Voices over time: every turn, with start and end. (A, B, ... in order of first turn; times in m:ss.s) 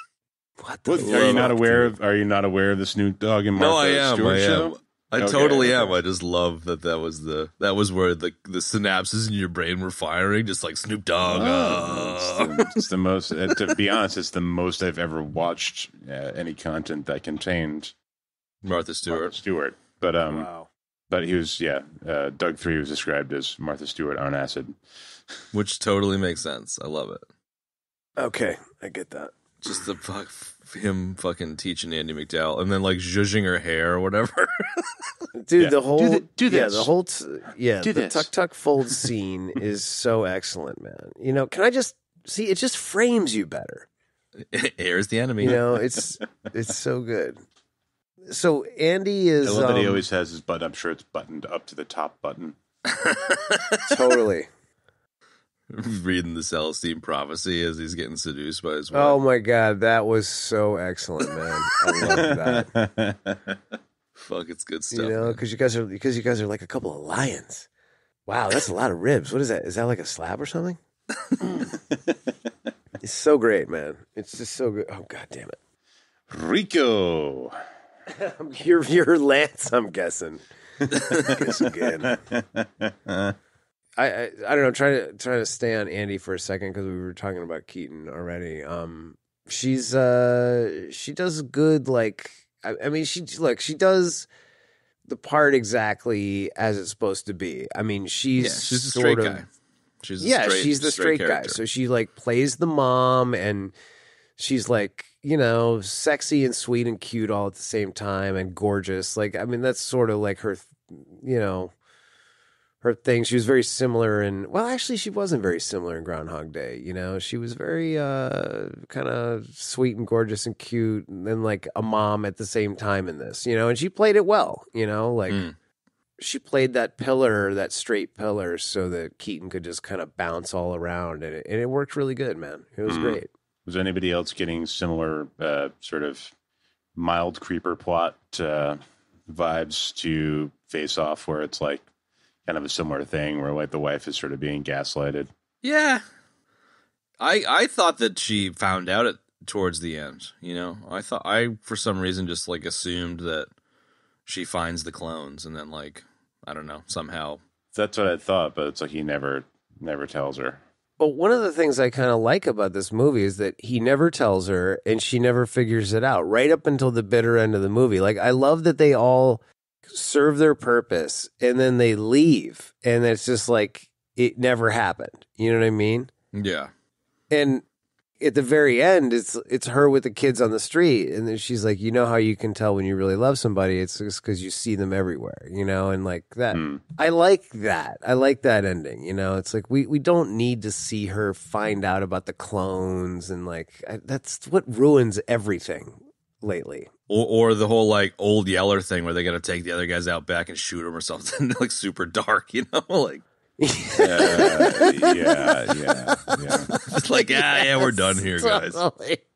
0:00.6-0:01.9 A
0:00.9-0:06.0 B
0:01.0-0:01.6 C
0:03.6-0:12.9 C
0:11.3-0:17.9 B
0:13.5-0:13.8 C
0:18.6-0:19.4 C
0:19.1-0:20.5 B
0:20.3-0:20.7 A
0:21.1-0:24.8 B
0:25.5-0:27.2 C
0:28.2-0:29.3 A
0:29.6-0:35.0 C
0:35.4-0:43.9 A
0:35.6-0:36.9 B
0:37.8-0:38.3 B
0:44.5-0:45.6 C
0:45.4-0:47.4 A
0:48.3-0:50.0 A
0:49.4-0:52.6 B
0:52.9-0:53.9 C
0:53.9-0:54.5 A
0:55.7-0:59.2 C
0:58.9-1:02.7 A
1:02.1-1:03.6 B
1:04.2-1:05.4 C
1:04.9-1:07.7 A
1:08.3-1:10.8 A
1:13.0-1:15.6 A
1:16.3-1:17.6 B
1:18.1-1:22.2 A
1:21.3-1:23.4 B
1:24.0-1:34.3 A
1:35.1-1:39.4 A
1:38.4-1:39.5 C
1:40.0-1:41.6 C
1:40.2-1:43.7 A
1:44.4-1:51.7 A
1:52.8-2:05.4 A
2:05.3-2:05.6 C
2:06.2-2:13.3 A
2:12.9-2:16.3 B
2:17.0-2:21.9 B
2:22.5-2:25.3 B
2:25.6-2:26.0 C
2:27.2-2:33.5 C
2:34.3-2:37.4 C
2:37.7-2:40.6 B
2:41.0-2:56.1 A
2:56.3-2:56.7 C
2:57.3-2:57.6 A
2:58.2-3:16.9 A
3:06.5-3:06.8 B
3:17.1-3:23.2 C
3:23.6-3:29.2 A
3:24.0-3:26.7 B
3:26.7-3:28.8 C